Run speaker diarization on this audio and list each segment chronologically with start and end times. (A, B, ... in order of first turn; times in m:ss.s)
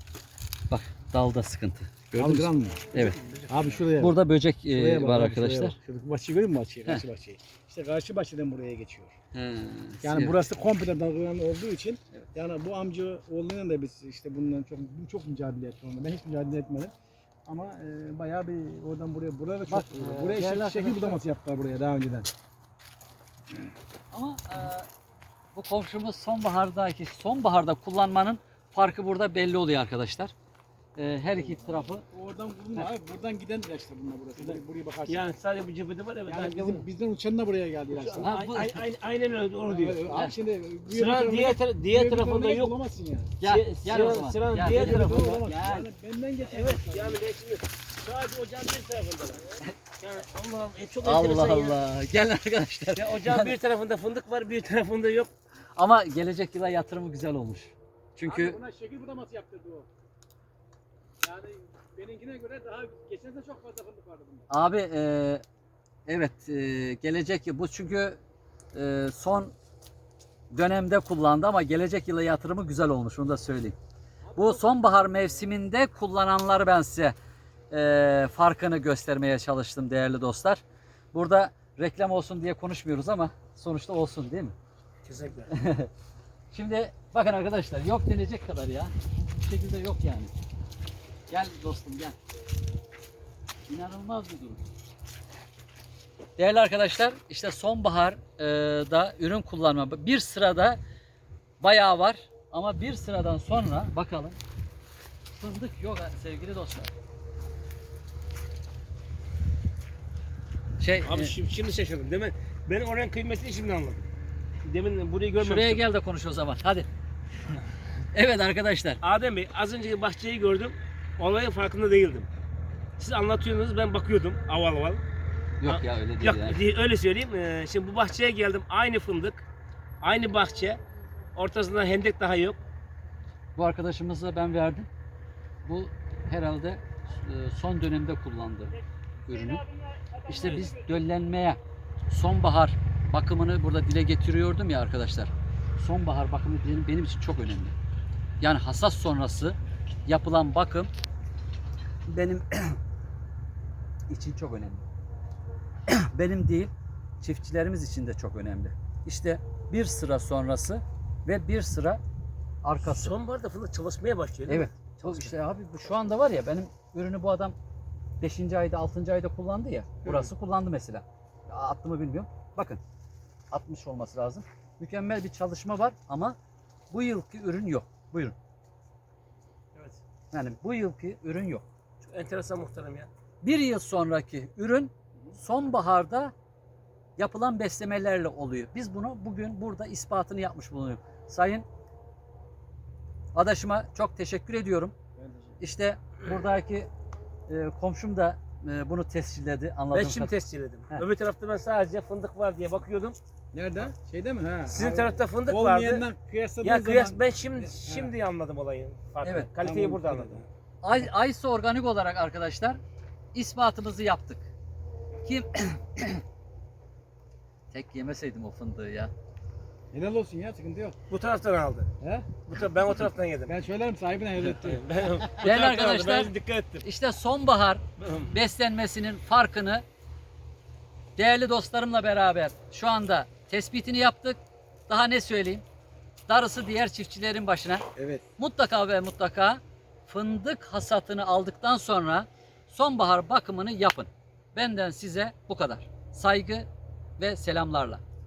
0:00.7-0:03.2 A
0:02.1-0:04.2 B
0:03.0-0:03.8 C
0:03.9-0:05.8 A
0:04.7-0:09.2 B
0:09.3-0:10.4 A
0:10.0-0:16.9 B
0:17.4-0:22.3 B
0:19.7-0:21.2 A
0:24.1-0:24.9 A
0:25.5-0:30.3 A
0:31.0-0:32.0 A
0:32.1-0:35.2 B
0:34.4-0:36.8 C
0:36.3-0:38.3 B
0:37.9-0:40.1 C
0:38.2-0:38.8 A
0:39.6-0:43.3 B
0:40.9-0:42.8 C
0:43.4-0:45.9 A
0:43.4-0:45.6 C
0:44.6-0:47.2 B
0:46.4-0:51.8 C
0:51.0-0:53.5 A
0:52.9-0:55.3 C
0:55.8-0:58.6 A
0:58.2-0:59.9 B
1:01.2-1:04.5 B
1:04.5-1:05.4 A
1:06.1-1:08.2 A
1:08.7-1:09.5 A
1:10.5-1:13.8 A
1:14.2-1:15.0 B
1:14.4-1:17.1 A
1:17.7-1:20.6 A
1:21.1-1:24.5 A
1:25.0-1:25.5 C
1:25.5-1:25.9 A
1:26.5-1:30.3 A
1:31.3-1:32.2 A
1:33.7-1:34.6 A
1:36.4-1:40.8 A
1:41.6-1:44.4 A
1:45.4-1:46.9 A
1:50.8-1:51.3 A
1:51.0-1:54.0 C
1:54.6-1:55.8 C
1:55.4-1:56.9 A
1:58.1-1:59.0 A
1:59.0-2:02.3 C
2:03.0-2:05.0 C
2:05.6-2:06.6 A
2:05.6-2:09.4 C
2:10.0-2:10.8 C
2:11.3-2:12.6 C
2:13.6-2:14.9 A
2:15.6-2:18.8 A
2:19.3-2:19.6 A
2:20.2-2:20.8 C
2:20.3-2:27.7 A
2:28.4-2:30.9 A
2:32.1-2:32.8 A
2:34.1-2:34.8 A
2:35.9-2:42.0 A
2:42.6-2:43.1 A
2:42.8-2:45.3 C
2:44.5-2:47.6 A
2:48.2-2:52.8 A
2:53.5-2:56.4 A
2:56.9-2:58.4 A
2:59.7-3:00.0 C
3:00.3-3:01.6 A
3:02.0-3:03.1 C
3:03.4-3:06.3 A
3:07.2-3:11.6 A
3:13.3-3:14.9 A
3:15.2-3:15.6 B
3:15.6-3:16.9 A
3:17.5-3:20.3 A
3:19.9-3:23.2 C
3:23.5-3:28.1 B
3:24.7-3:26.0 C
3:26.6-3:30.4 C
3:29.6-3:30.4 B
3:30.8-3:32.8 A
3:33.3-3:34.5 A
3:35.2-3:36.2 A
3:37.7-3:39.1 A
3:39.9-3:41.0 B
3:41.1-3:41.9 C
3:42.0-3:42.3 B
3:42.4-3:43.5 C
3:43.5-3:44.8 B
3:44.4-3:46.8 C
3:45.4-3:46.3 A
3:46.8-3:49.8 A
3:48.0-3:48.3 C
3:51.2-3:55.6 A
3:56.3-3:57.8 A
3:58.0-3:58.2 B
3:58.4-4:06.7 A
4:07.2-4:08.0 A